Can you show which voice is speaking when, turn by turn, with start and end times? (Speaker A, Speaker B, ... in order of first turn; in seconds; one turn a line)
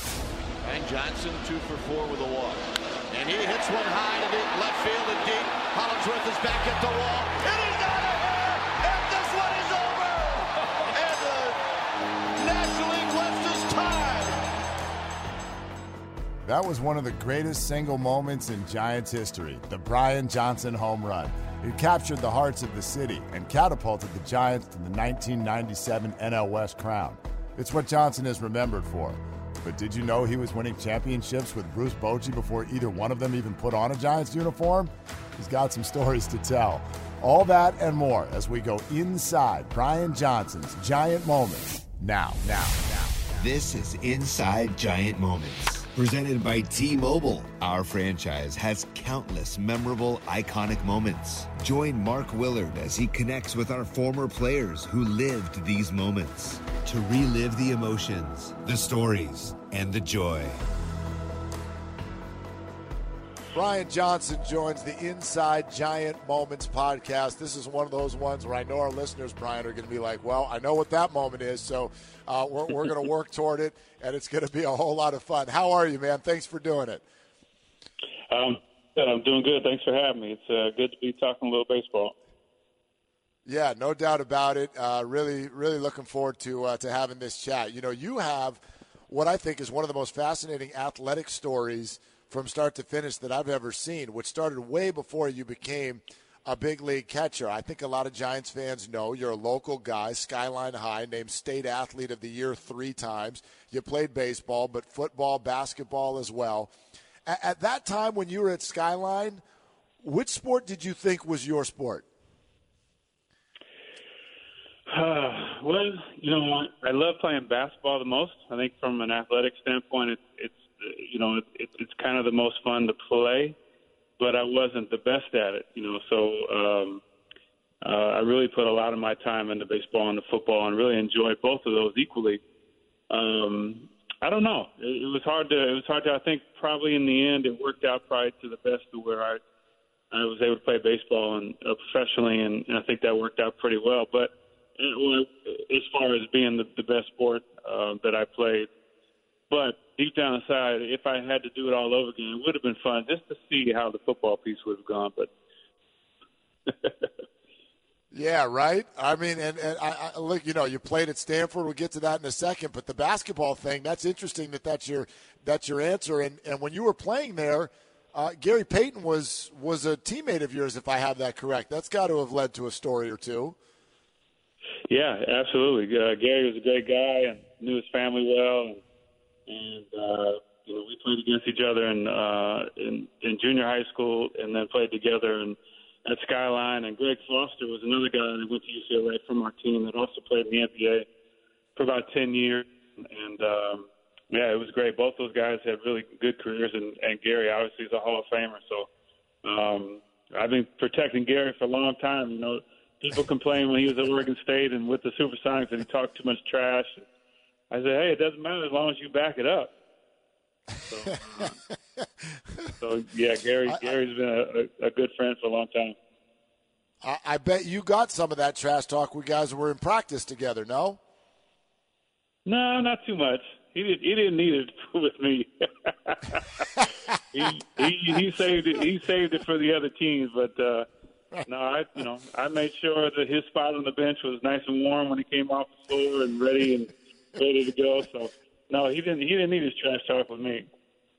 Speaker A: 0.6-11.6
Speaker A: 12.3-14.4
Speaker B: 16.4-43.1
Speaker C: 43.3-60.6
Speaker B: 63.5-77.0
Speaker D: 78.3-82.1
Speaker B: 83.5-106.7
Speaker B: 107.2-109.4
Speaker B: 110.0-112.0
Speaker D: 114.9-123.5
Speaker D: 124.2-127.0
Speaker D: 127.8-132.4
Speaker D: 133.1-139.4
Speaker D: 140.1-148.7
Speaker D: 149.5-155.3
Speaker D: 156.7-157.1
Speaker B: 158.1-173.6
Speaker D: 174.9-178.8
Speaker D: 179.5-191.1
Speaker D: 191.8-198.9
Speaker D: 199.4-207.0
Speaker D: 207.7-209.7
Speaker D: 210.9-211.6
Speaker D: 212.8-215.9
Speaker B: 217.0-221.0
Speaker D: 222.4-226.7
Speaker D: 227.3-230.9
Speaker D: 231.4-240.7